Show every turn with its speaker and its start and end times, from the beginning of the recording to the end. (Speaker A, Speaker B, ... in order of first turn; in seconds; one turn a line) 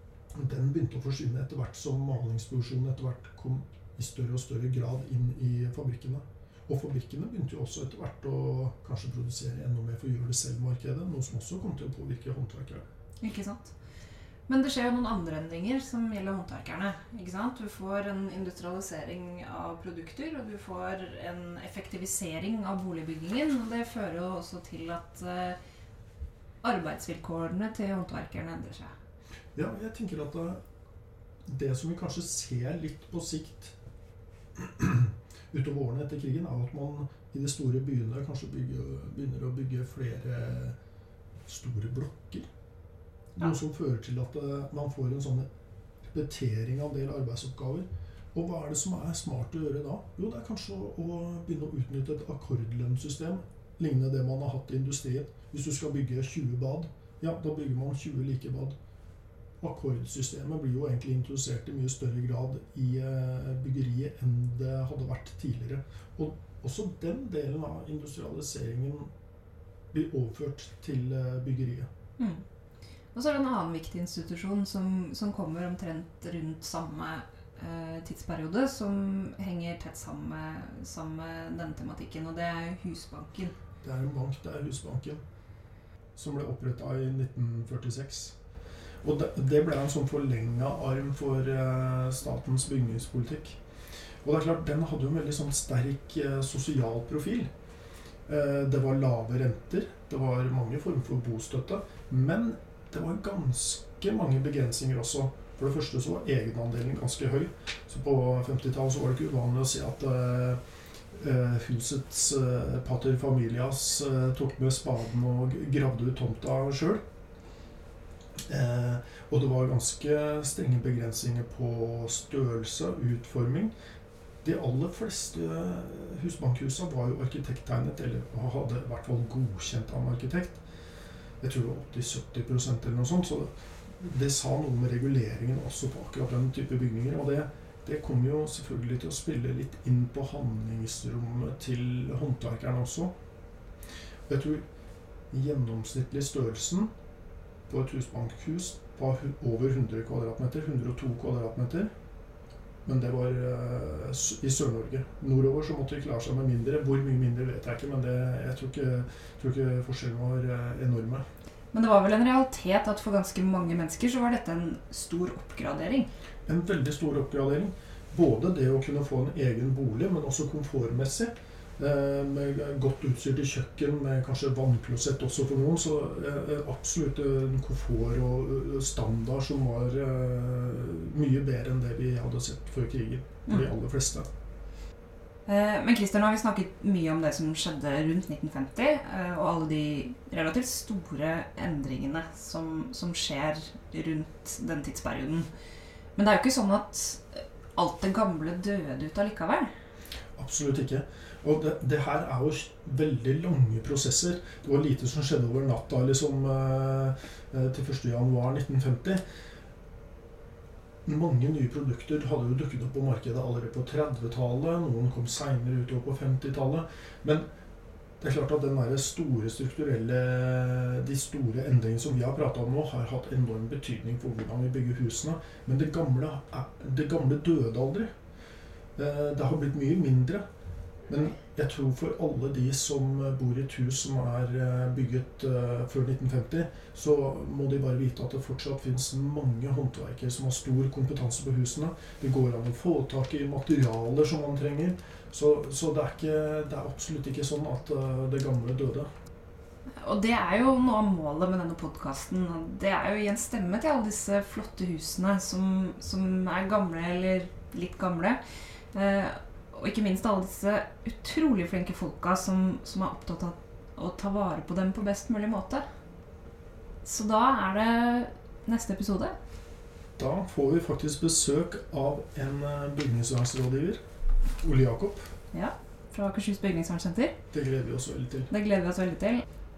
Speaker A: 0.3-12.8
Speaker B: 13.2-13.8
Speaker B: 14.5-25.6
Speaker B: 26.6-28.9
Speaker A: 29.6-30.6
Speaker A: 31.5-33.7
Speaker A: 34.6-40.8
Speaker A: 41.5-42.5
Speaker A: 43.4-45.5
Speaker A: 46.0-58.8
Speaker A: 59.6-69.1
Speaker A: 69.9-71.9
Speaker B: 72.2-72.5
Speaker B: 73.1-83.5
Speaker A: 83.8-85.2
Speaker A: 86.2-88.4
Speaker A: 89.0-93.6
Speaker A: 94.2-97.5
Speaker A: 98.2-110.6
Speaker A: 111.1-117.0
Speaker A: 118.5-123.7
Speaker A: 124.4-130.6
Speaker A: 131.4-143.1
Speaker A: 144.3-144.6
Speaker A: 145.3-146.9
Speaker A: 147.7-151.9
Speaker A: 152.8-161.2
Speaker B: 161.7-166.1
Speaker A: 166.5-184.3
Speaker B: 185.5-195.5
Speaker B: 196.2-199.7
Speaker A: 200.4-209.2
Speaker A: 211.1-217.5
Speaker A: 218.2-228.1
Speaker A: 229.0-230.4
Speaker A: 231.1-249.1
Speaker B: 250.0-258.4
Speaker B: 258.9-265.8
Speaker B: 267.0-269.4
Speaker A: 270.2-274.0
Speaker A: 274.6-275.3
Speaker B: 275.5-277.4
Speaker A: 277.5-278.5
Speaker B: 278.5-279.4